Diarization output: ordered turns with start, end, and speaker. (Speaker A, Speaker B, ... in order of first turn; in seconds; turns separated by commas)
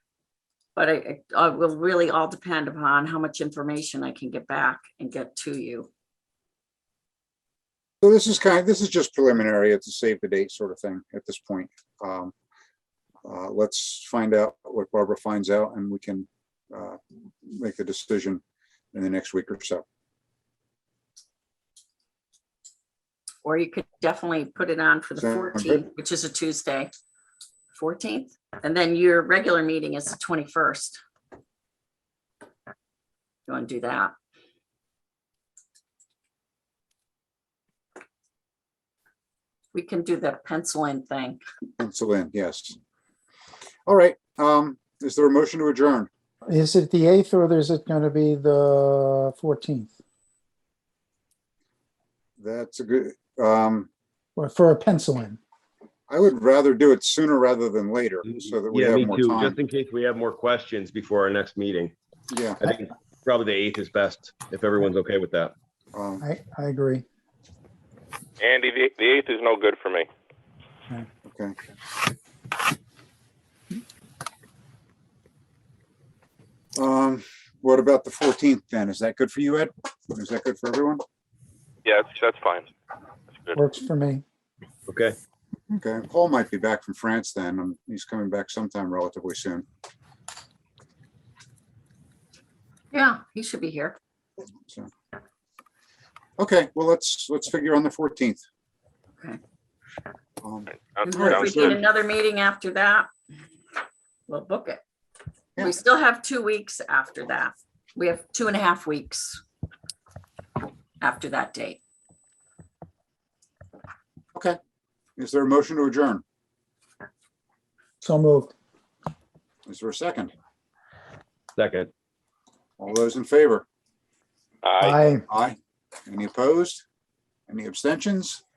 Speaker A: 0.8-5.9, Speaker B: 8.0-12.3, Speaker B: 13.2-18.4, Speaker B: 18.9-19.8, Speaker A: 23.4-26.9, Speaker B: 25.2-25.8, Speaker A: 27.7-31.0, Speaker A: 33.5-34.1, Speaker A: 39.7-41.4, Speaker B: 41.8-42.8, Speaker B: 43.9-46.1, Speaker C: 46.5-49.9, Speaker B: 52.4-53.9, Speaker C: 54.4-55.4, Speaker B: 56.1-59.6, Speaker D: 58.2-61.9, Speaker B: 62.3-62.6, Speaker D: 62.6-65.5, Speaker B: 65.9-66.2, Speaker C: 66.2-67.0, Speaker E: 68.4-70.1, Speaker B: 71.2-71.6, Speaker B: 76.8-81.0, Speaker E: 81.9-82.7, Speaker C: 83.6-84.2, Speaker D: 84.9-85.2, Speaker B: 85.7-89.7, Speaker A: 92.9-94.0, Speaker B: 96.4-98.4, Speaker B: 100.4-101.8, Speaker E: 101.0-101.6, Speaker A: 101.0-103.1, Speaker A: 104.3-104.8, Speaker A: 105.6-109.4, Speaker A: 111.0-111.8, Speaker B: 115.2-116.2, Speaker C: 118.0-118.5, Speaker B: 119.7-120.3, Speaker D: 121.6-121.9, Speaker B: 122.8-123.7, Speaker E: 124.7-125.0, Speaker C: 124.8-125.3, Speaker B: 125.3-126.8, Speaker B: 127.5-128.4